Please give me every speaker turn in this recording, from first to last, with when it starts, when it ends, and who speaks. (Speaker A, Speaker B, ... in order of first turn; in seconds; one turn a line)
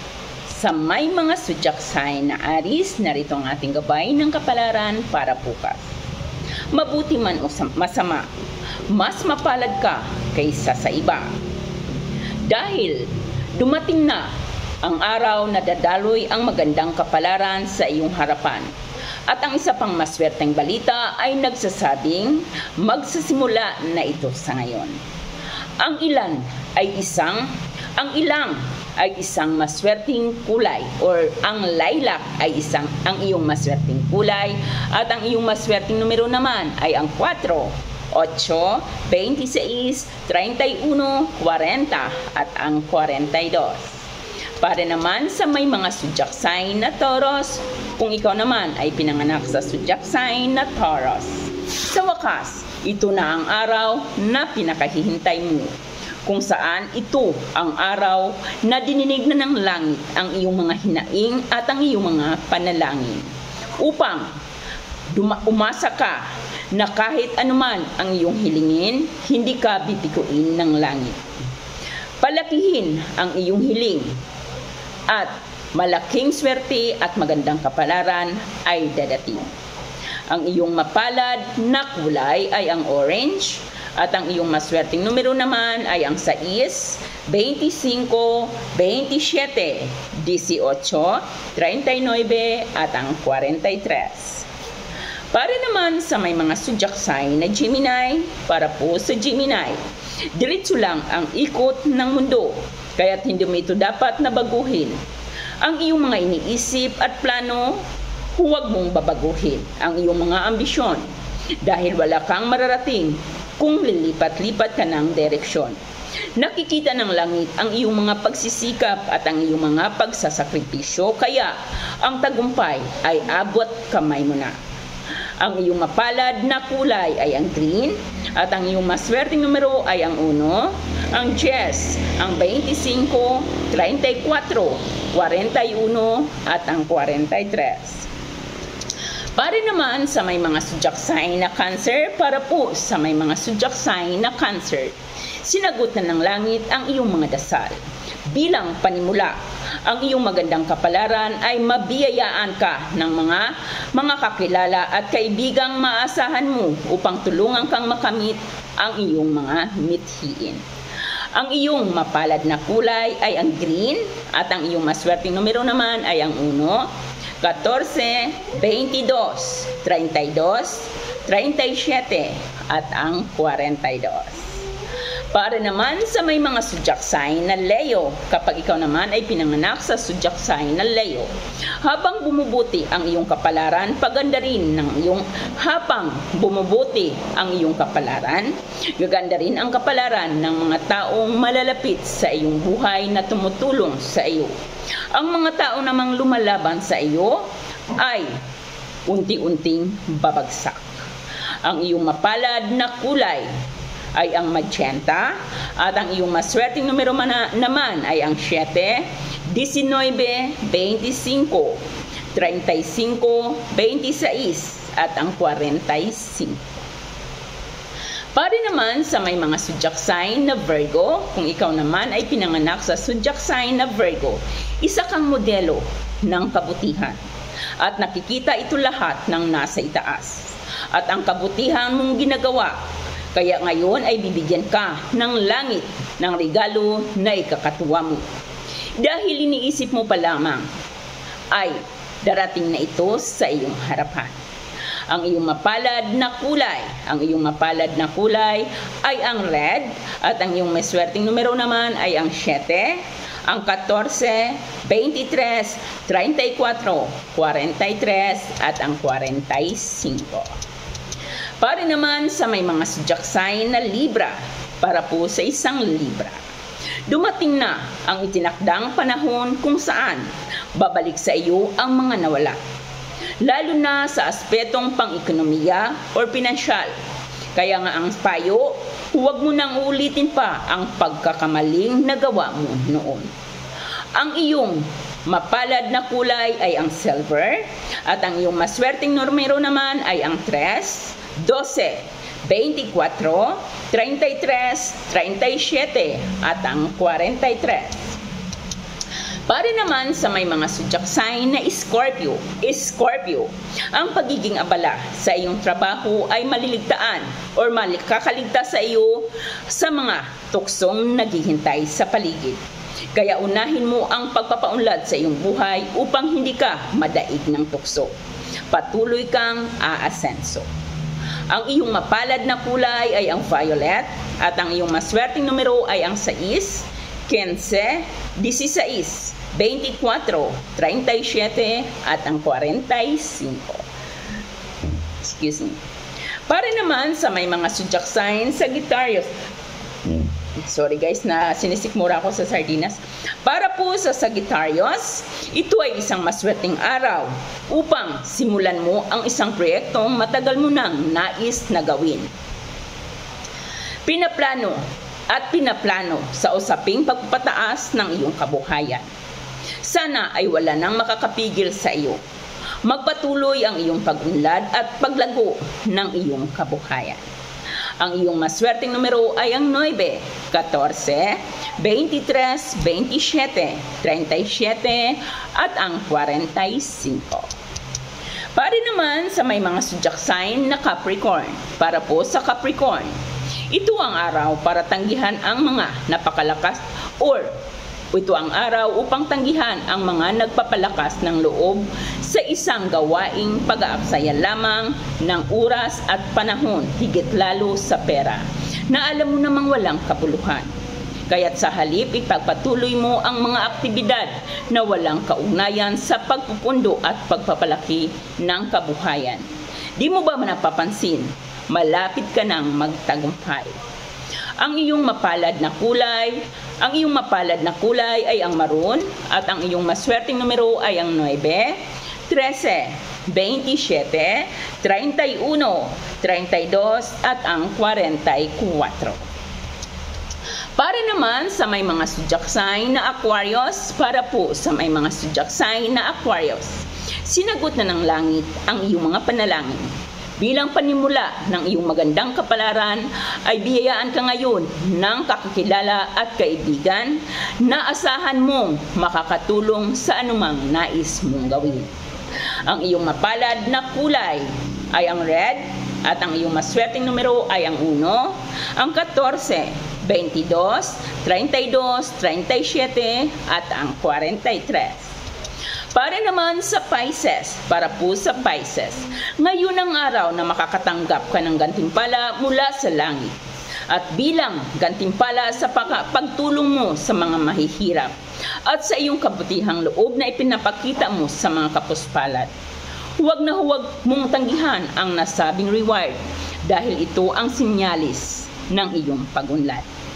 Speaker A: 0.5-5.8
Speaker A: 6.7-8.3
Speaker A: 8.9-11.3
Speaker A: 12.5-14.3
Speaker A: 14.8-18.7
Speaker A: 19.3-25.0
Speaker A: 25.8-44.0
Speaker A: 44.6-64.3
Speaker A: 65.1-71.2
Speaker A: 72.2-74.1
Speaker A: 75.1-79.5
Speaker A: 80.3-94.5
Speaker A: 95.3-99.8
Speaker A: 100.3-105.0
Speaker A: 105.6-107.8
Speaker A: 108.3-111.0
Speaker A: 111.6-115.8
Speaker A: 116.4-124.6
Speaker A: 125.4-138.1
Speaker A: 139.3-147.8
Speaker A: 148.3-160.6
Speaker A: 161.3-166.9
Speaker A: 167.4-174.6
Speaker A: 175.3-181.3
Speaker A: 181.8-194.5
Speaker A: 195.1-198.3
Speaker A: 199.1-200.9
Speaker A: 201.6-203.5
Speaker A: 204.1-211.8
Speaker A: 212.3-216.6
Speaker A: 218.3-227.2
Speaker A: 227.8-232.8
Speaker A: 233.3-238.2
Speaker A: 239.0-240.7
Speaker A: 241.5-244.4
Speaker A: 245.1-260.6
Speaker A: 261.6-266.4
Speaker A: 267.1-272.6
Speaker A: 273.4-276.9
Speaker A: 277.6-283.3
Speaker A: 284.1-298.2
Speaker A: 299.5-312.6
Speaker A: 313.1-318.1
Speaker A: 318.7-320.7
Speaker A: 321.5-333.8
Speaker A: 335.2-335.8
Speaker A: 336.5-339.3
Speaker A: 340.1-352.3
Speaker A: 354.1-354.8
Speaker A: 355.3-359.1
Speaker A: 359.8-362.2
Speaker A: 362.8-367.2
Speaker A: 368.0-377.5
Speaker A: 378.5-383.1
Speaker A: 383.7-387.5
Speaker A: 388.1-400.7
Speaker A: 401.3-409.4
Speaker A: 410.0-413.8
Speaker A: 414.6-429.2
Speaker A: 430.8-439.8
Speaker A: 440.4-451.9
Speaker A: 452.6-465.1
Speaker A: 465.9-473.4
Speaker A: 473.9-478.1
Speaker A: 478.6-482.5
Speaker A: 483.2-489.9